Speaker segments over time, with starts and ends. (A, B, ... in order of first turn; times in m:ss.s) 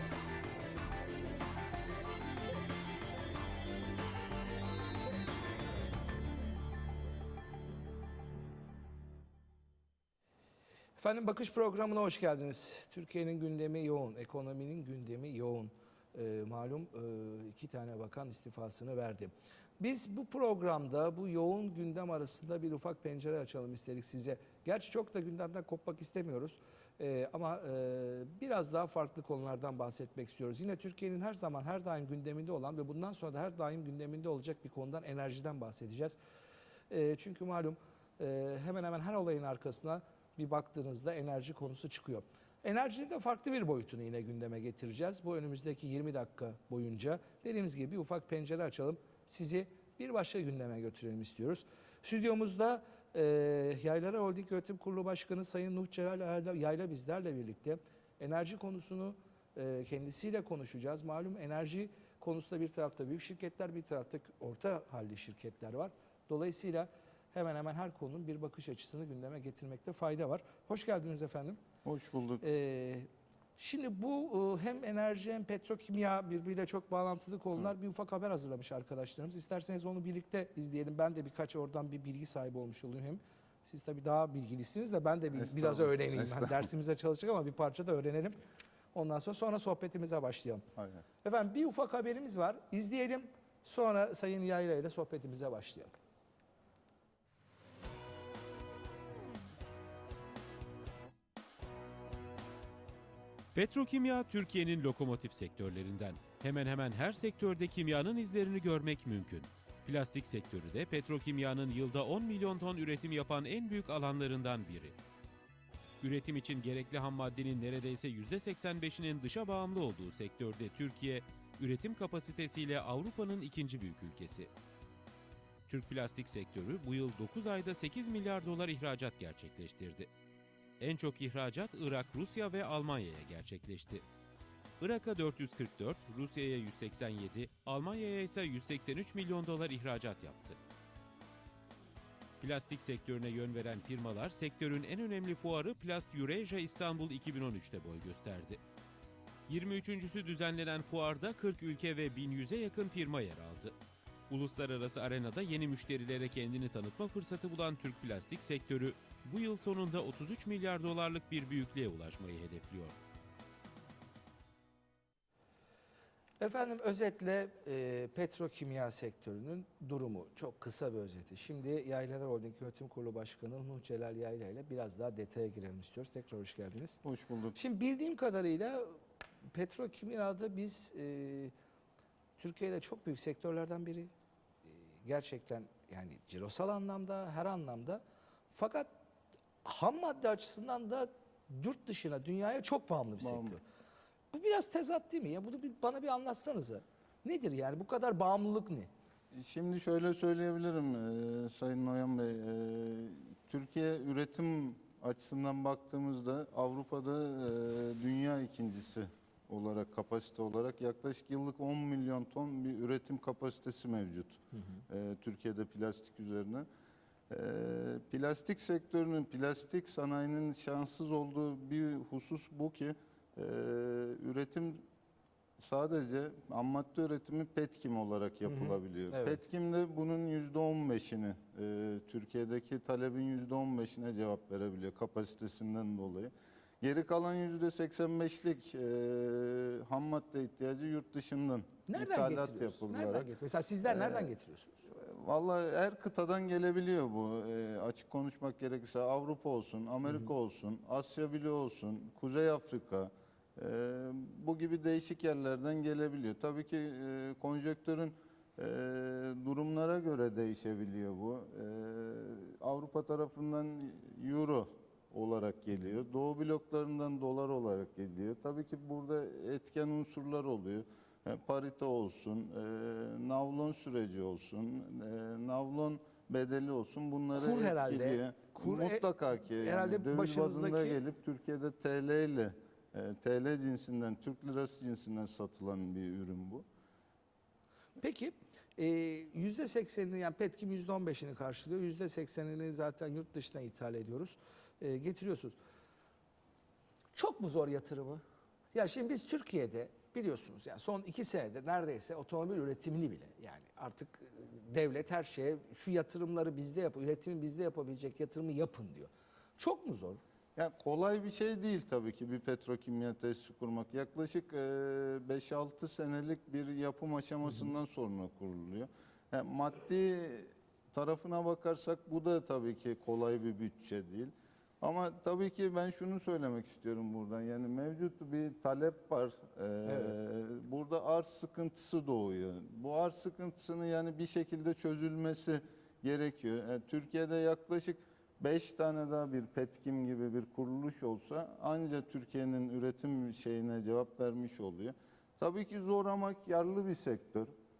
0:11.0-0:36.2 A
0:36.9-1:11.6 A
1:11.8-1:12.4 B
1:12.4-1:28.4 A
1:25.3-1:26.7 B
1:28.9-1:30.6 A
1:30.8-1:31.0 B
1:31.2-1:35.9 A
1:43.5-1:55.0 C
1:56.0-2:04.5 C
2:05.7-2:10.1 C
2:10.8-2:14.0 C
2:14.8-2:20.6 C
2:22.4-2:28.6 C
2:29.5-2:33.7 C
2:34.3-2:43.0 C
2:46.4-2:57.0 A
2:57.0-2:57.6 B
2:57.5-2:58.9 A
2:59.5-3:01.5 A
3:02.4-3:04.1 A
3:04.6-3:08.9 A
3:09.6-3:13.6 A
3:13.2-3:13.6 B
3:14.3-3:18.9 A
3:19.3-3:36.6 B
3:34.5-3:34.8 A
3:37.3-3:44.8 B
3:45.6-4:03.3 B
3:48.4-3:49.4 A
4:01.9-4:04.8 A
4:03.8-4:04.3 B
4:04.9-4:46.6 B
4:37.3-4:41.0 A
4:48.0-4:55.6 A
4:57.1-4:58.2 A
4:58.7-5:10.2 A
5:10.6-5:47.5 B
5:29.8-5:30.2 A